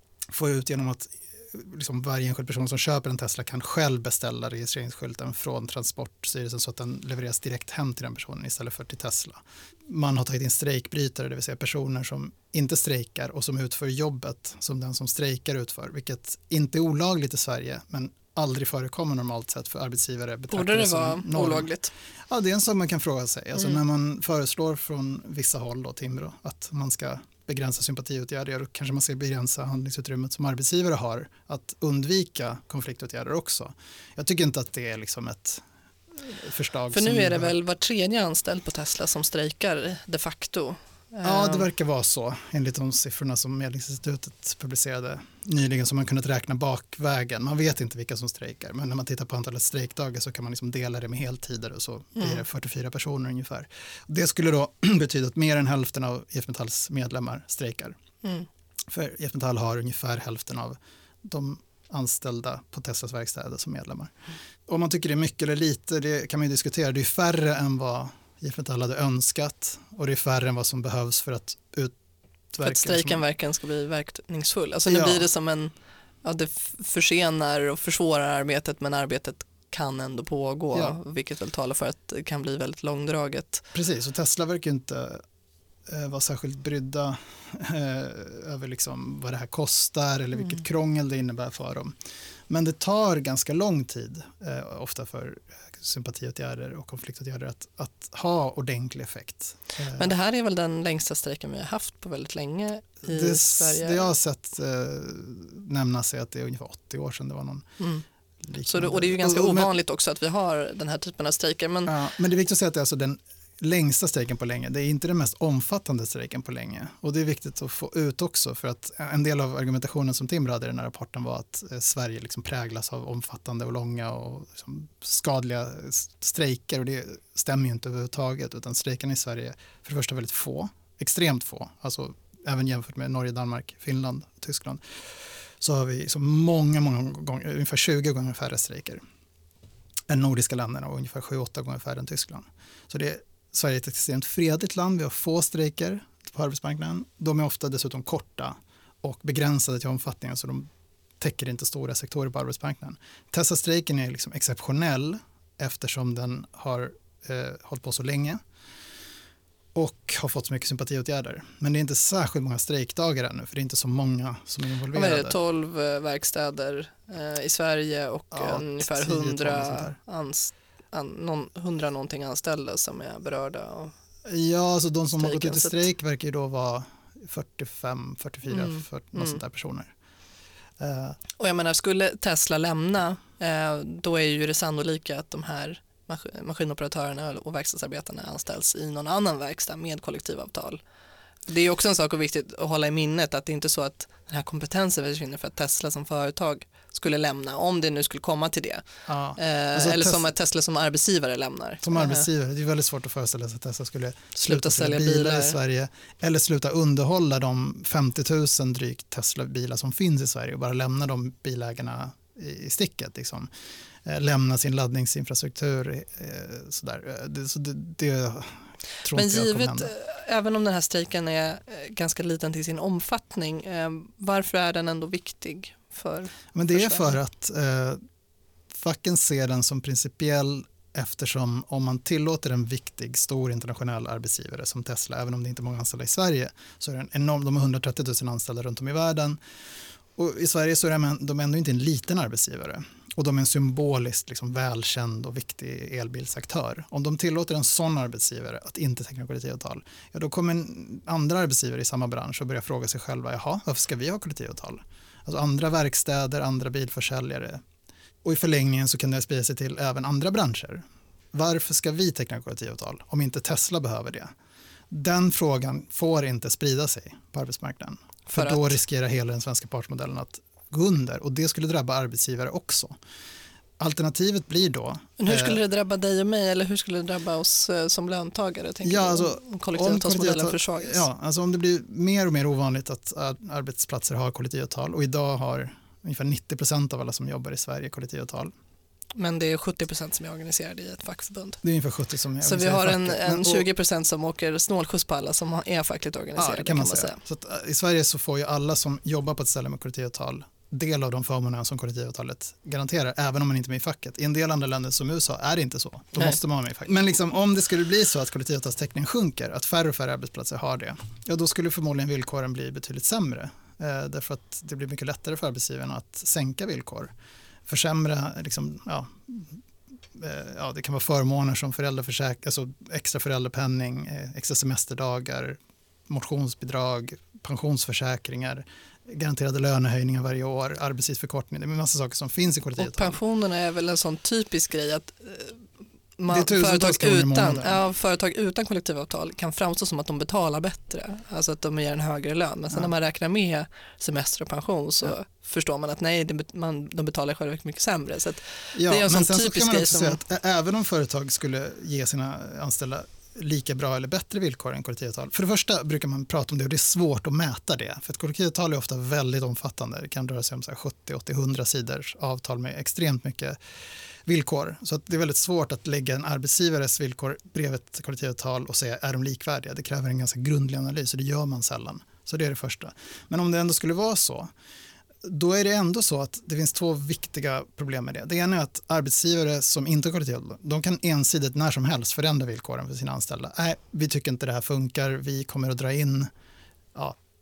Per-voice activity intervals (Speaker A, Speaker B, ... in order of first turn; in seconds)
Speaker A: 0.3-21.7, 22.3-35.6, 36.1-37.5, 41.2-58.0, 58.9-64.1, 64.7-72.0, 72.5-73.2, 74.8-75.3, 83.7-85.2, 85.9-92.0, 92.5-100.1, 103.0-107.7, 108.4-109.7, 111.9-139.0, 140.1-150.7, 151.2-158.4, 159.7-165.3, 168.3-170.0, 174.2-179.9, 180.8-181.2, 199.1-200.2, 201.8-213.5, 214.0-219.9, 226.5-228.0, 228.7-239.4, 240.2-257.6, 258.2-264.3, 264.9-273.0, 273.8-275.6, 278.8-288.5, 291.6-293.7, 296.4-317.1, 317.7-319.6, 320.1-333.2, 336.3-337.8, 348.7-363.6, 364.2-374.5, 375.2-386.3
Speaker B: 20.5-21.9, 36.9-41.7, 72.6-75.7, 76.2-83.6, 99.9-104.1, 107.8-108.0, 108.7-111.9, 164.9-173.9, 175.2-175.8, 178.5-179.4, 181.4-190.8, 191.5-198.8, 199.3-202.2, 204.3-205.6, 219.1-227.2, 268.3-268.7, 275.2-281.1, 289.1-291.6, 292.4-297.2, 332.8-335.6, 336.2-350.2